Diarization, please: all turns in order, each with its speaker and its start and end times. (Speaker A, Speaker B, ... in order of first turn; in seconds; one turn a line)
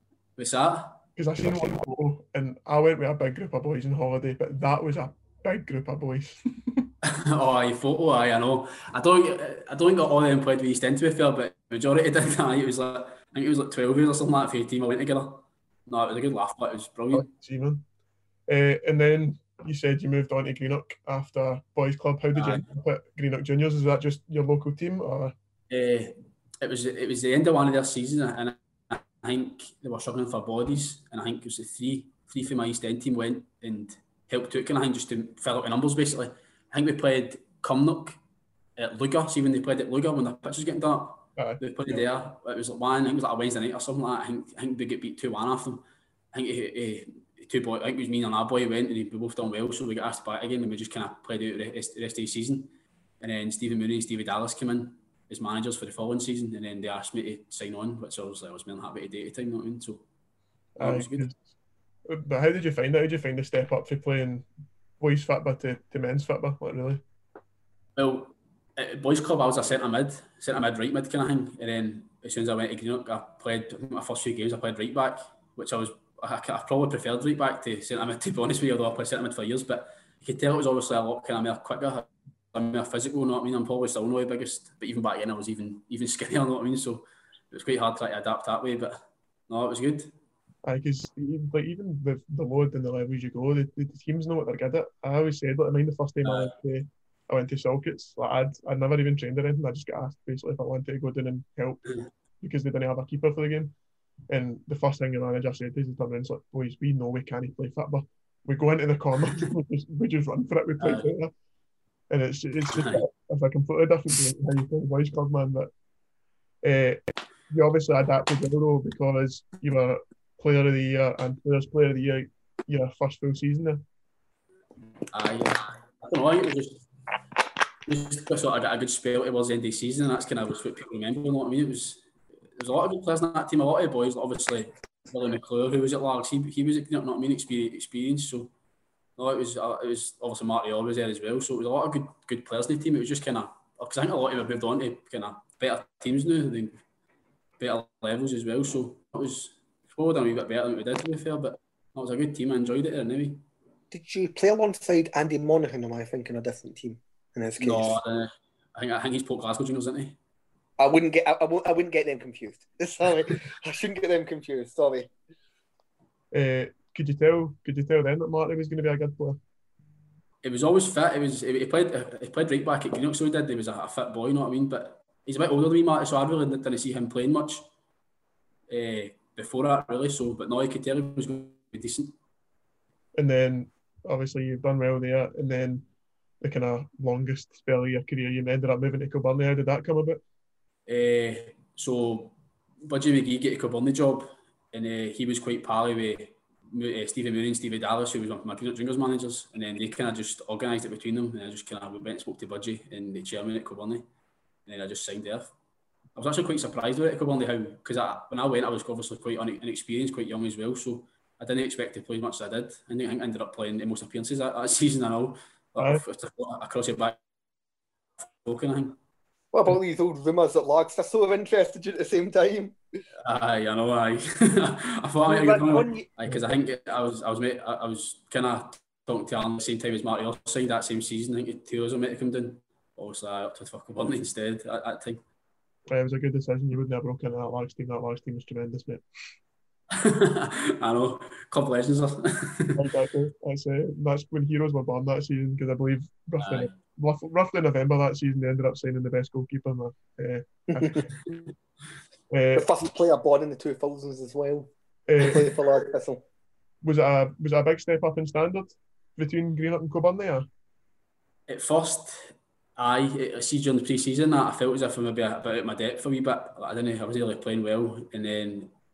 Speaker A: 0.4-1.0
Speaker B: 1.2-6.9
Speaker A: 7.0-17.3
Speaker B: 17.1-17.9
Speaker B: 18.5-25.3
Speaker A: 22.4-22.7
Speaker A: 25.7-38.2
Speaker A: 38.8-60.0
Speaker B: 41.4-42.0
Speaker B: 60.8-61.4
Speaker A: 60.8-61.3
Speaker B: 62.1-64.5
Speaker B: 65.0-67.0
Speaker A: 68.0-90.1
Speaker B: 90.7-101.8
Speaker A: 96.2-96.5
Speaker B: 102.4-103.7
Speaker B: 104.3-111.3
Speaker A: 110.8-111.1
Speaker B: 112.1-115.7
Speaker A: 112.7-113.0
Speaker B: 116.6-123.8
Speaker A: 125.1-126.8
Speaker A: 127.9-132.0
Speaker A: 132.6-138.5
Speaker A: 139.2-146.8
Speaker A: 147.6-153.5
Speaker C: 153.9-158.0
Speaker A: 157.6-160.2
Speaker C: 160.8-165.1
Speaker B: 166.3-169.4
Speaker A: 170.4-177.7
Speaker A: 178.7-182.2
Speaker B: 183.2-185.9
Speaker B: 186.4-190.2
Speaker A: 190.9-204.1
Speaker A: 204.7-205.5
Speaker A: 206.2-217.2
Speaker A: 218.4-219.0
Speaker C: 219.5-222.8
Speaker A: 223.2-235.2
Speaker C: 225.2-226.1
Speaker B: 235.9-239.0
Speaker A: 239.9-242.8
Speaker B: 242.8-251.1
Speaker A: 246.4-246.7
Speaker C: 250.7-251.1
Speaker B: 252.3-252.7
Speaker C: 252.5-256.2
Speaker B: 255.1-255.5
Speaker B: 256.8-260.5
Speaker A: 261.5-268.7